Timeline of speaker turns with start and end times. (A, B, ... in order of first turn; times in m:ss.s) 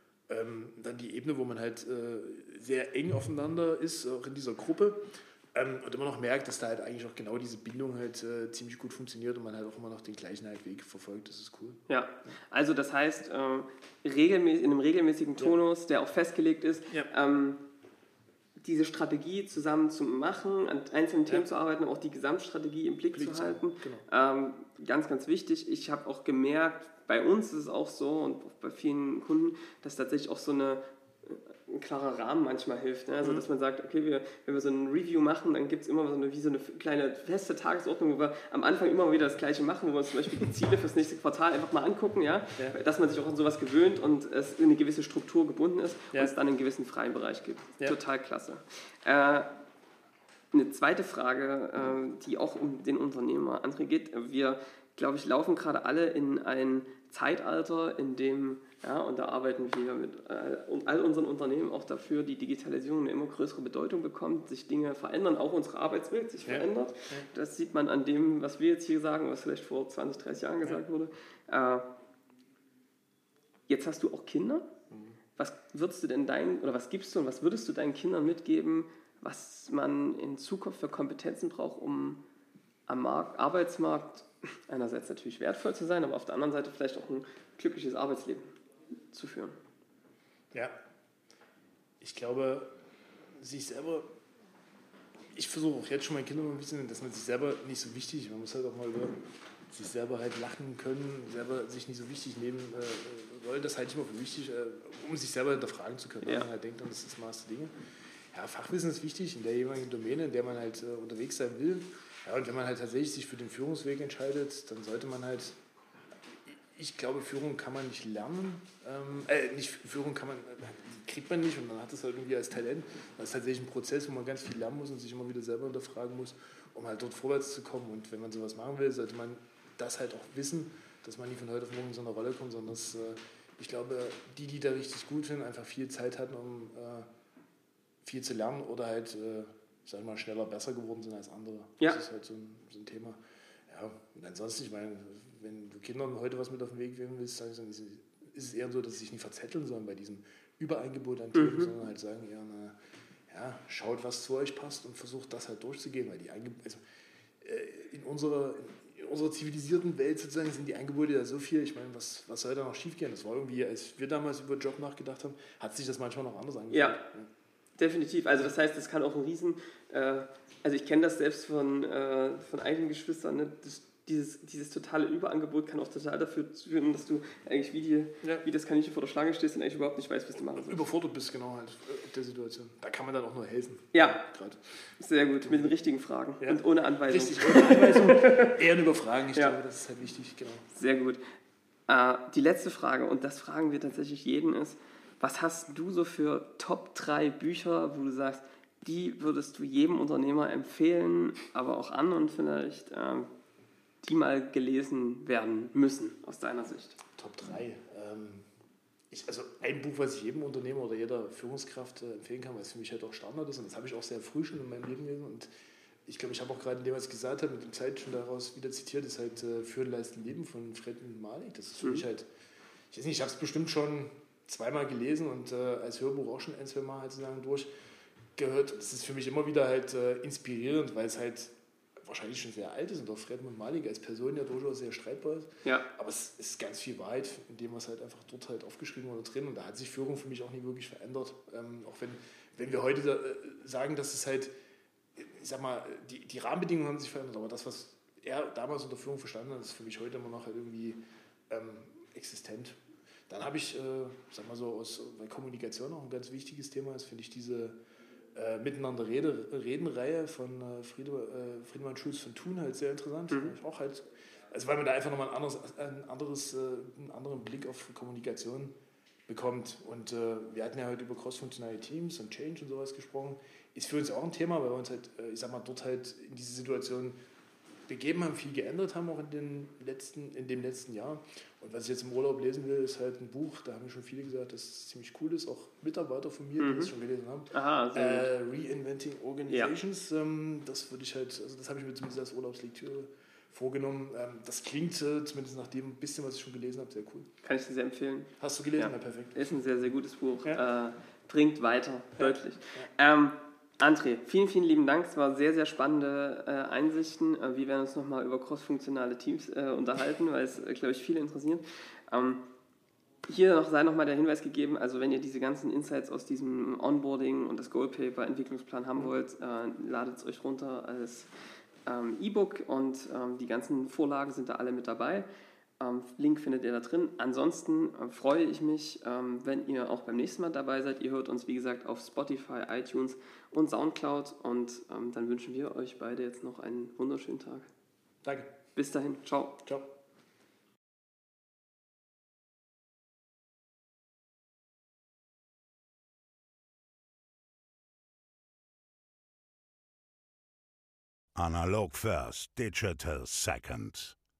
0:00.3-0:05.0 A
0:05.5-0:12.3 A
0:11.9-0:17.6 B
0:18.6-0:49.5 B
0:23.1-0:24.0 A
0:50.5-1:11.8 B
1:06.4-1:07.2 A
1:13.7-1:14.7 B
1:14.9-1:15.2 A
1:15.4-1:22.2 B
1:22.9-1:28.5 B
1:29.1-1:29.6 B
1:32.0-1:32.7 A
1:33.4-1:34.1 A
1:35.3-1:47.7 A
1:48.3-1:55.6 A
1:56.4-2:17.1 A
2:18.0-2:32.8 A
2:31.3-2:31.7 B
2:33.3-2:36.8 A
2:37.4-2:47.3 A
2:46.7-2:47.0 B
2:47.8-3:00.8 B
3:00.5-3:04.9 A
3:03.9-3:04.2 B
3:05.0-3:08.6 B
3:05.4-3:05.7 A
3:06.4-3:10.6 A
3:10.7-3:11.2 B
3:11.9-3:23.3 B
3:24.0-3:27.0 B
3:27.1-3:28.5 A
3:29.1-3:35.5 A
3:36.0-3:42.3 A
3:42.9-3:47.7 A
3:48.4-4:04.5 A
4:05.2-4:12.8 A
4:13.3-4:17.8 A
4:18.3-4:28.7 A
4:29.3-4:37.2 A
4:37.9-4:57.3 A
4:46.6-4:46.9 B
4:47.5-4:48.3 B
4:49.5-4:49.7 B
4:57.4-5:12.4 B
4:58.4-4:59.4 A
5:02.2-5:02.9 A
5:13.3-5:21.3 B
5:21.8-5:25.2 B
5:25.8-5:37.7 B
5:38.2-5:38.5 A
5:38.8-5:39.6 B
5:51.3-5:54.2 C